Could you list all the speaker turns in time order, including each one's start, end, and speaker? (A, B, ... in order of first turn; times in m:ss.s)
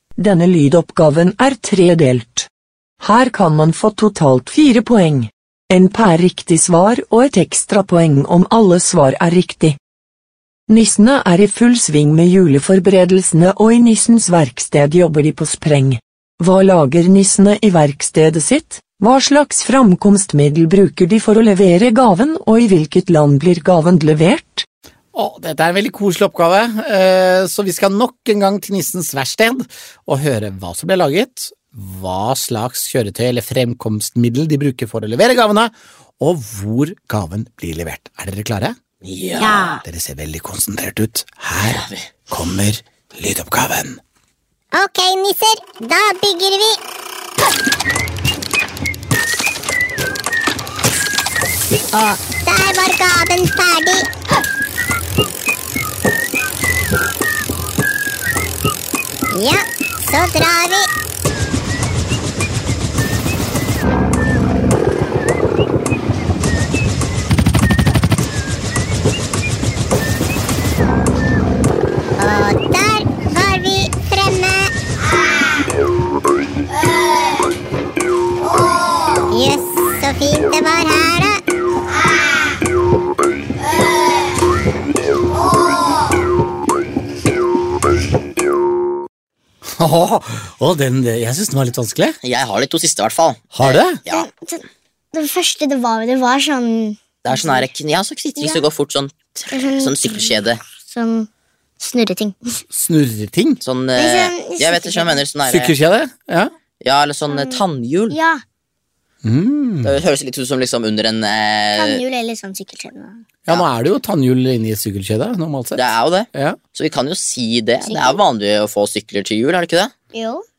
0:00.2-0:02.5 A
0:03.0-0:09.8 A
0:10.7-0:24.7 A
0:25.1-0:38.8 B
0:39.0-0:39.8 C
0:39.4-0:39.8 D
0:39.8-0:44.0 B
0:41.7-0:42.1 C
0:44.7-0:46.8 E
0:51.9-0:54.1 E
0:59.3-1:00.9 E
1:12.2-1:14.7 E
1:19.3-1:21.4 E
1:29.8-1:32.2 B
1:32.2-1:34.3 C
1:33.6-1:34.0 B
1:34.1-1:37.7 D
1:37.2-1:40.6 C
1:38.4-1:38.6 D
1:39.5-1:41.3 D
1:41.8-1:42.6 D
1:42.7-1:43.6 B
1:43.6-1:45.7 C
1:44.0-1:45.2 D
1:45.5-1:46.5 B
1:46.8-1:48.2 C
1:47.3-1:48.4 D
1:49.2-1:50.0 B
1:49.8-1:52.0 C
1:51.8-1:53.2 D
1:53.5-1:56.6 B
1:55.8-1:59.9 C
1:57.8-1:58.2 D
2:00.1-2:00.4 D